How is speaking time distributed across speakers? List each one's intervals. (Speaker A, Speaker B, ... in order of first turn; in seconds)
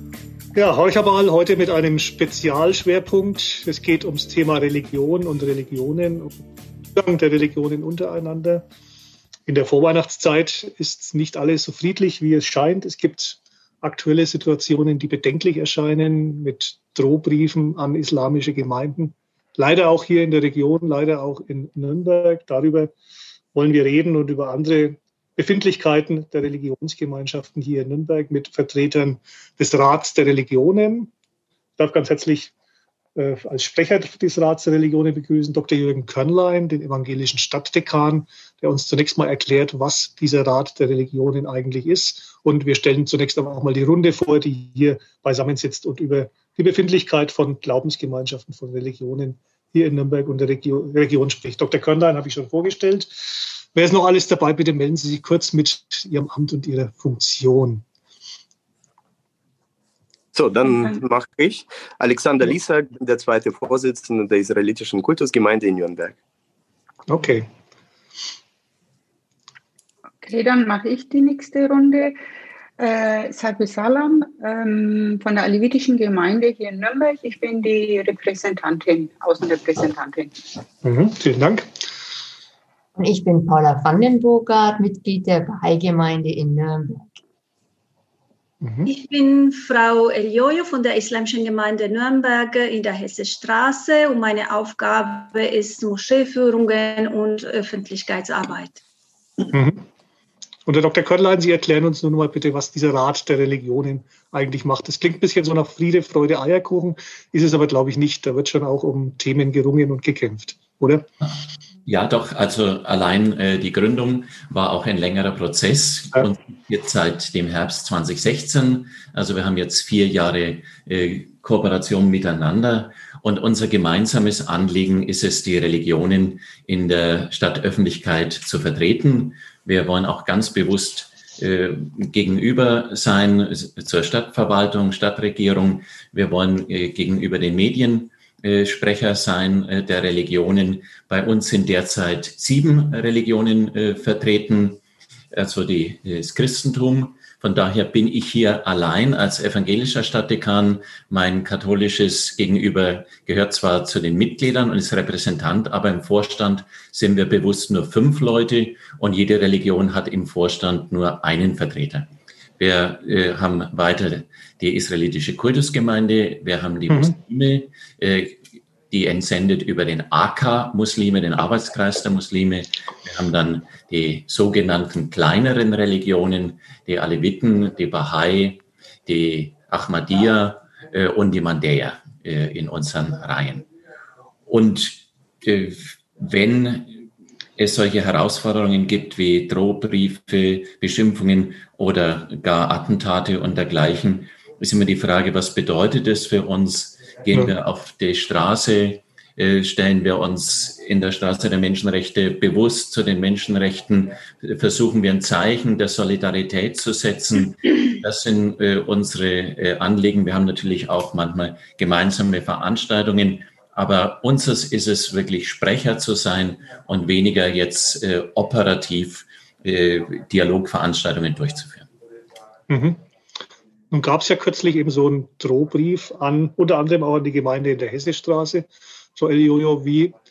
Speaker A: 0.5-6.4, 7.0-8.7, 9.5-22.9, 23.5-31.1, 31.8-32.5, 33.2-57.9, 67.1-67.5, 80.8-81.7, 88.6-88.9, 99.5-99.8, 100.7-111.1, 166.9-167.2, 222.7-223.0, 223.9-230.1
Speaker B: 60.3-66.2
Speaker C: 70.2-72.2, 72.8-80.3
Speaker D: 83.0-87.1
Speaker E: 88.8-98.8
Speaker F: 111.9-144.8, 145.3-183.7, 184.5-186.9, 187.6-221.9